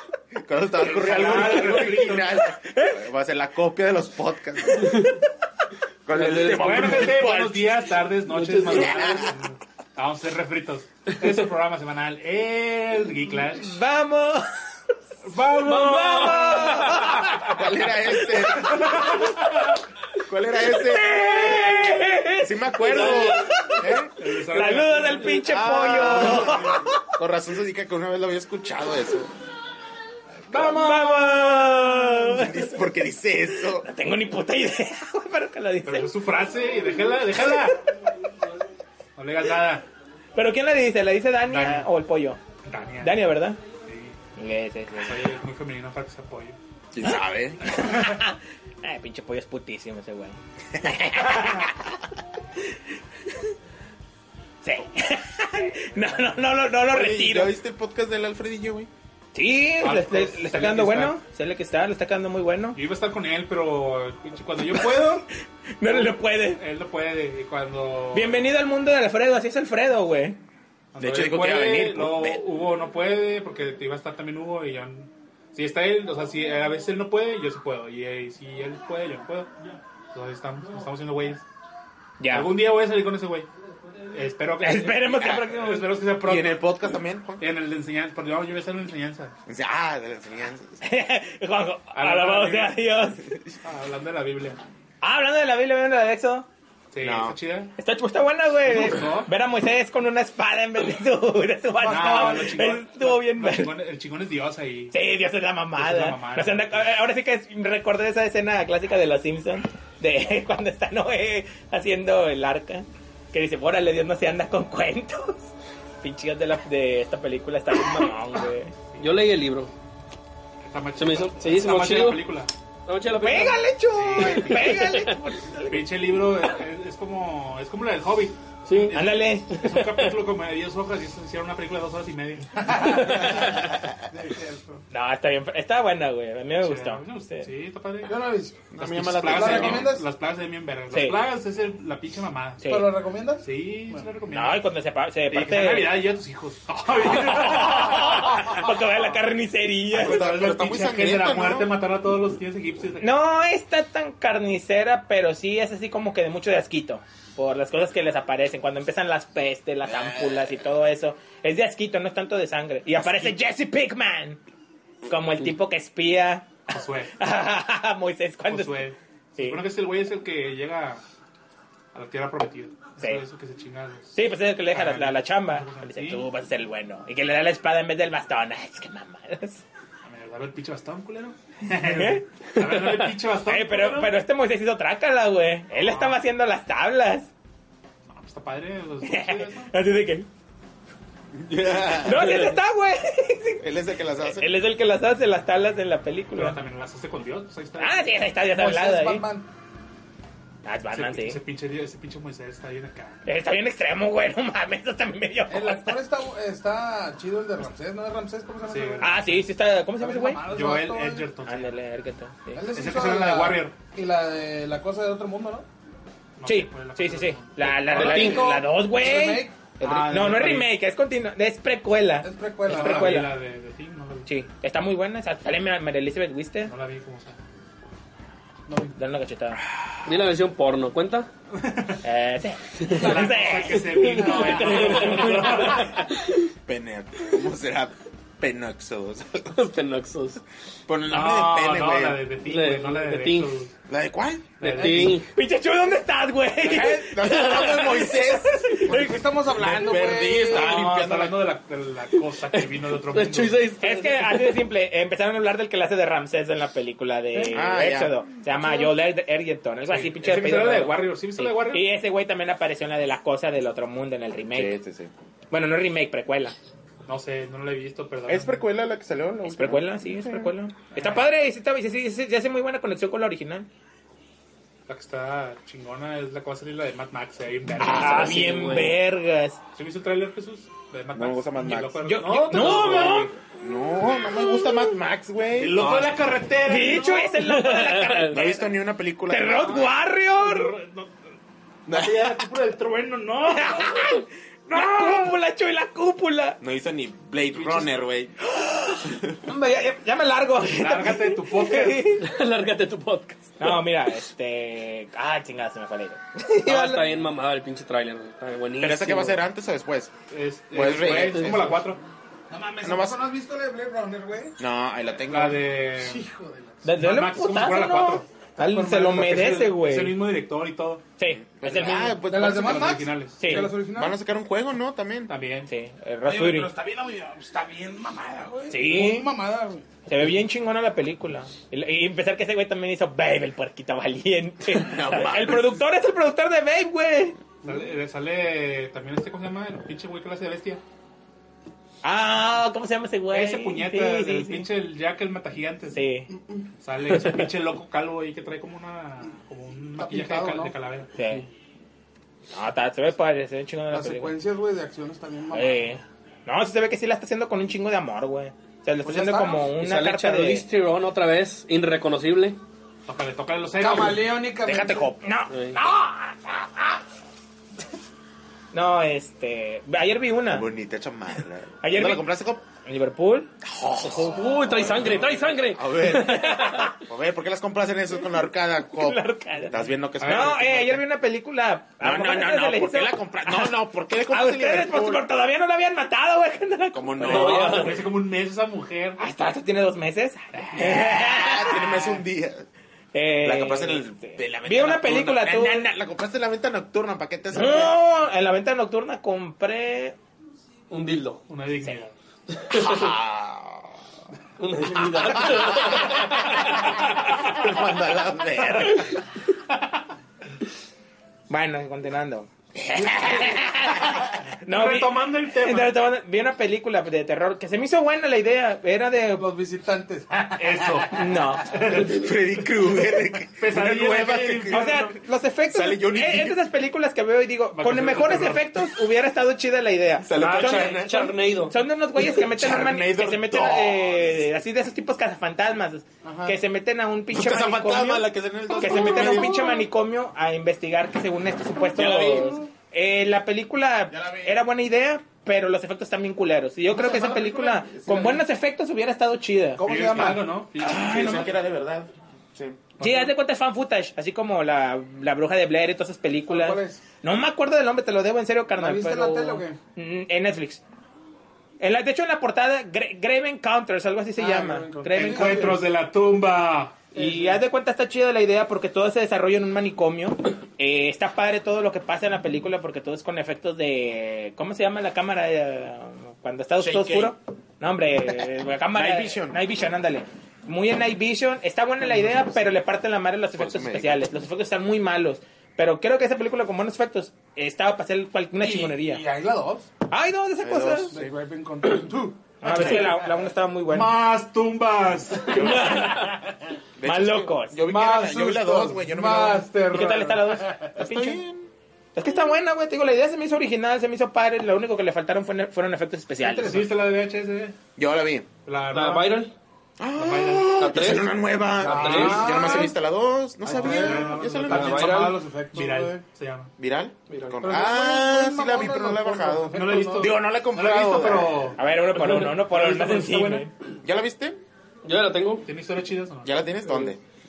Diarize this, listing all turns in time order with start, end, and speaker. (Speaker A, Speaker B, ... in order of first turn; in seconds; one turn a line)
Speaker A: 0.3-5.0
Speaker B: 0.8-2.4
Speaker C: 2.6-3.0
Speaker A: 6.0-7.9
Speaker D: 6.1-7.2
Speaker B: 6.2-13.8
Speaker D: 8.3-9.3
Speaker A: 8.8-9.3
Speaker C: 13.5-14.5
Speaker B: 15.2-17.2
Speaker D: 15.6-17.3
Speaker C: 15.9-17.6
Speaker A: 17.4-19.0
Speaker C: 18.5-19.2
Speaker A: 20.2-21.6
Speaker C: 20.7-27.0
Speaker A: 22.4-24.1
Speaker D: 23.0-23.3
Speaker B: 24.1-25.4
Speaker A: 25.4-29.3
Speaker B: 26.2-26.6
Speaker C: 30.5-32.8
Speaker A: 32.1-33.9
Speaker C: 33.7-36.1
Speaker B: 35.8-37.8
Speaker B: 39.1-39.9
Speaker C: 40.4-42.4
Speaker B: 41.5-41.9
Speaker B: 42.6-43.2
Speaker C: 43.0-43.6
Speaker B: 43.9-44.1
Speaker C: 44.4-45.3
Speaker B: 45.0-46.6
Speaker A: 46.9-47.8
Speaker C: 47.7-51.7
Speaker B: 47.8-48.1
Speaker C: 54.6-57.5
Speaker A: 56.9-58.9
Speaker C: 59.3-62.8
Speaker B: 59.8-61.2
Speaker B: 62.7-65.3
Speaker C: 65.8-66.6
Speaker B: 66.5-68.5
Speaker C: 68.1-70.4
Speaker B: 70.9-79.5
Speaker A: 71.0-72.4
Speaker B: 80.1-81.4
Speaker C: 82.2-82.6
Speaker B: 82.3-83.5
Speaker B: 84.1-86.7
Speaker C: 84.6-85.9
Speaker A: 86.2-87.4
Speaker B: 87.4-89.3
Speaker A: 89.5-90.8
Speaker C: 90.8-93.2
Speaker B: 91.9-92.8
Speaker B: 93.6-94.6
Speaker C: 95.0-96.5
Speaker B: 96.9-97.7
Speaker A: 97.0-97.4
Speaker C: 97.8-103.7
Speaker B: 98.6-99.3
Speaker B: 101.8-105.0
Speaker C: 104.9-115.5
Speaker B: 105.8-106.9
Speaker C: 116.0-118.7
Speaker D: 119.0-119.7
Speaker B: 120.6-122.5
Speaker D: 121.0-122.3
Speaker D: 122.8-123.6
Speaker C: 123.2-125.9
Speaker B: 123.9-124.9
Speaker D: 124.2-125.2
Speaker B: 125.7-133.4
Speaker D: 128.7-129.0
Speaker C: 128.9-129.6
Speaker D: 129.5-130.1
Speaker E: 132.6-134.8
Speaker D: 133.2-133.6
Speaker C: 134.9-137.5
Speaker B: 136.6-138.2
Speaker E: 138.1-138.7
Speaker A: 138.7-139.9
Speaker B: 138.8-142.6
Speaker E: 139.2-140.1
Speaker C: 140.9-141.2
Speaker C: 142.6-143.0
Speaker E: 142.6-144.1
Speaker B: 143.4-144.6
Speaker C: 144.3-146.0
Speaker B: 145.3-148.6
Speaker C: 147.1-150.2
Speaker B: 149.9-153.1
Speaker A: 149.9-151.7
Speaker C: 153.0-164.4
Speaker A: 159.8-160.5
Speaker B: 163.0-163.2
Speaker C: 165.1-166.6
Speaker B: 166.7-167.1
Speaker C: 167.2-168.8
Speaker B: 168.5-171.0
Speaker C: 169.3-169.6
Speaker B: 171.9-174.2
Speaker C: 173.0-173.2
Speaker C: 174.1-179.6
Speaker B: 174.7-176.2
Speaker B: 180.0-184.2
Speaker C: 181.7-182.2
Speaker C: 183.4-187.3
Speaker B: 185.7-186.2
Speaker B: 188.1-189.7
Speaker C: 189.0-190.3
Speaker A: 191.3-192.5
Speaker C: 192.0-193.7
Speaker A: 193.6-194.5
Speaker C: 194.2-196.6
Speaker B: 196.3-198.1
Speaker C: 197.8-199.3
Speaker E: 198.5-199.5
Speaker C: 200.6-201.4
Speaker B: 200.9-203.2
Speaker C: 203.2-206.0
Speaker E: 205.5-209.1
Speaker B: 208.7-209.4
Speaker C: 209.0-210.4
Speaker E: 210.0-211.3
Speaker B: 210.5-211.8
Speaker C: 211.4-212.6
Speaker E: 212.5-215.7
Speaker B: 212.7-213.7
Speaker B: 216.4-218.5
Speaker C: 216.4-223.3
Speaker E: 217.9-219.6
Speaker D: 218.0-218.5
Speaker B: 219.8-220.7
Speaker E: 222.2-223.3
Speaker B: 222.7-224.3
Speaker C: 224.2-226.7
Speaker B: 226.7-227.4
Speaker B: 228.7-228.9
Speaker C: 228.9-229.6
Speaker D: 230.0-231.3
Speaker B: 231.6-232.0
Speaker C: 232.0-235.8
Speaker D: 232.8-233.1
Speaker B: 232.9-236.1
Speaker E: 233.0-235.1
Speaker D: 233.9-236.4
Speaker A: 236.7-239.6
Speaker D: 239.5-240.4
Speaker A: 240.9-242.2
Speaker B: 241.1-243.7
Speaker D: 242.4-243.6
Speaker A: 243.9-244.9
Speaker B: 244.6-245.2
Speaker D: 244.6-245.3
Speaker C: 245.2-249.0
Speaker A: 246.6-251.4
Speaker D: 247.3-247.9
Speaker E: 248.8-250.8
Speaker B: 250.4-253.6
Speaker D: 252.5-254.6
Speaker C: 253.8-264.8
Speaker A: 257.5-258.2
Speaker B: 259.9-261.9
Speaker A: 264.5-265.1
Speaker C: 265.5-266.6
Speaker B: 267.1-268.6
Speaker A: 268.3-270.5
Speaker C: 269.4-273.7
Speaker B: 270.9-271.3
Speaker B: 274.9-278.9
Speaker C: 277.8-279.6
Speaker D: 277.9-279.0
Speaker B: 279.7-283.3
Speaker A: 281.1-282.0
Speaker C: 282.0-283.3
Speaker A: 282.6-285.9
Speaker B: 285.6-287.4
Speaker D: 285.8-286.1
Speaker C: 286.6-288.7
Speaker D: 287.4-288.4
Speaker A: 288.3-289.9
Speaker C: 289.3-290.7
Speaker B: 290.4-291.1
Speaker B: 291.9-294.1
Speaker A: 291.9-292.4
Speaker C: 293.5-296.6
Speaker B: 294.7-295.4
Speaker A: 296.6-298.3
Speaker B: 297.5-298.0
Speaker C: 298.4-302.3
Speaker A: 299.0-299.4
Speaker B: 300.6-302.1
Speaker D: 302.2-303.7
Speaker C: 303.6-307.1
Speaker D: 306.6-309.4
Speaker A: 308.8-310.1
Speaker B: 310.3-312.0
Speaker A: 310.7-311.7
Speaker D: 311.1-311.6
Speaker E: 312.5-314.6
Speaker A: 312.8-313.2
Speaker A: 314.6-315.7
Speaker B: 315.3-316.2
Speaker E: 315.9-316.8
Speaker C: 316.8-320.2
Speaker B: 316.9-318.3
Speaker E: 318.6-319.5
Speaker B: 319.0-321.0
Speaker C: 321.2-322.2
Speaker A: 321.3-323.1
Speaker E: 322.3-324.1
Speaker B: 322.5-323.6
Speaker C: 323.4-323.7
Speaker A: 323.9-325.3
Speaker B: 325.3-325.7
Speaker C: 325.7-326.7
Speaker E: 326.2-329.8
Speaker C: 328.7-329.3
Speaker C: 330.1-337.4
Speaker A: 334.7-335.8
Speaker B: 337.6-340.8
Speaker C: 342.0-344.7
Speaker B: 343.3-346.0
Speaker C: 345.9-346.3
Speaker B: 346.8-351.1
Speaker E: 350.0-350.7
Speaker C: 351.1-351.4
Speaker C: 352.5-354.4
Speaker E: 353.9-356.0
Speaker C: 355.5-360.6
Speaker E: 359.0-359.7
Speaker D: 359.7-362.6
Speaker B: 363.1-364.4
Speaker E: 363.8-365.1
Speaker A: 364.6-365.2
Speaker C: 365.2-367.0
Speaker D: 365.5-365.8
Speaker C: 368.7-370.7
Speaker A: 370.5-372.6
Speaker C: 371.8-372.3
Speaker C: 372.8-373.5
Speaker A: 373.6-380.9
Speaker D: 374.0-376.9
Speaker C: 376.0-376.9
Speaker C: 378.9-383.8
Speaker B: 380.2-381.0
Speaker A: 382.0-385.2
Speaker C: 384.3-387.9
Speaker A: 386.9-387.9
Speaker D: 387.2-388.0
Speaker B: 387.3-389.2
Speaker C: 389.2-392.2
Speaker A: 390.7-392.6
Speaker C: 393.1-395.9
Speaker A: 393.4-397.9
Speaker C: 397.5-400.1
Speaker D: 400.9-401.4
Speaker B: 401.5-402.1
Speaker D: 402.5-403.1
Speaker A: 402.7-404.0
Speaker D: 404.6-406.9
Speaker A: 405.4-409.2
Speaker C: 411.5-412.5
Speaker A: 412.8-414.2
Speaker C: 413.0-419.5
Speaker B: 414.6-415.9
Speaker E: 419.4-421.8
Speaker B: 420.5-422.2
Speaker C: 421.1-421.7
Speaker A: 421.9-425.1
Speaker B: 423.6-425.1
Speaker C: 424.7-449.8
Speaker A: 425.7-426.6
Speaker B: 427.7-428.7
Speaker A: 430.2-431.3
Speaker D: 430.4-431.8
Speaker A: 432.2-434.2
Speaker E: 436.2-436.6
Speaker A: 437.3-439.8
Speaker E: 438.8-439.8
Speaker A: 441.9-442.6
Speaker E: 442.2-442.7
Speaker A: 444.1-444.6
Speaker E: 446.9-448.3
Speaker A: 447.2-448.3
Speaker E: 449.8-450.5
Speaker B: 449.8-451.6
Speaker A: 450.8-452.8
Speaker C: 450.8-451.4
Speaker C: 453.0-460.8
Speaker B: 453.0-453.3
Speaker E: 456.5-457.0
Speaker E: 458.8-459.8
Speaker C: 461.8-465.8
Speaker E: 464.4-465.8
Speaker B: 465.1-467.1
Speaker C: 467.1-489.2
Speaker E: 467.1-467.6
Speaker A: 476.8-477.3
Speaker A: 478.9-479.6
Speaker A: 483.5-484.2
Speaker E: 488.6-489.9
Speaker C: 490.1-491.1
Speaker A: 490.6-491.3
Speaker E: 491.1-493.2
Speaker C: 492.6-494.1
Speaker B: 493.9-496.1
Speaker A: 495.5-496.1
Speaker C: 495.5-496.4
Speaker A: 497.0-499.7
Speaker C: 497.0-497.8
Speaker E: 497.9-500.9
Speaker C: 499.9-501.4
Speaker A: 500.9-501.7
Speaker C: 502.1-506.9
Speaker B: 506.4-507.8
Speaker A: 508.0-508.5
Speaker B: 508.6-509.4
Speaker D: 508.9-509.5
Speaker A: 510.0-515.3
Speaker B: 510.1-511.1
Speaker D: 510.8-511.3
Speaker E: 511.8-513.0
Speaker B: 511.8-512.9
Speaker D: 511.8-512.5
Speaker E: 513.6-516.2
Speaker B: 513.6-516.7
Speaker D: 514.7-515.4
Speaker A: 516.8-521.7
Speaker D: 517.3-517.6
Speaker E: 517.6-520.3
Speaker B: 519.7-523.7
Speaker C: 521.8-523.7
Speaker A: 524.0-524.6
Speaker D: 525.0-525.7
Speaker B: 525.6-526.6
Speaker A: 526.4-527.2
Speaker D: 526.9-527.1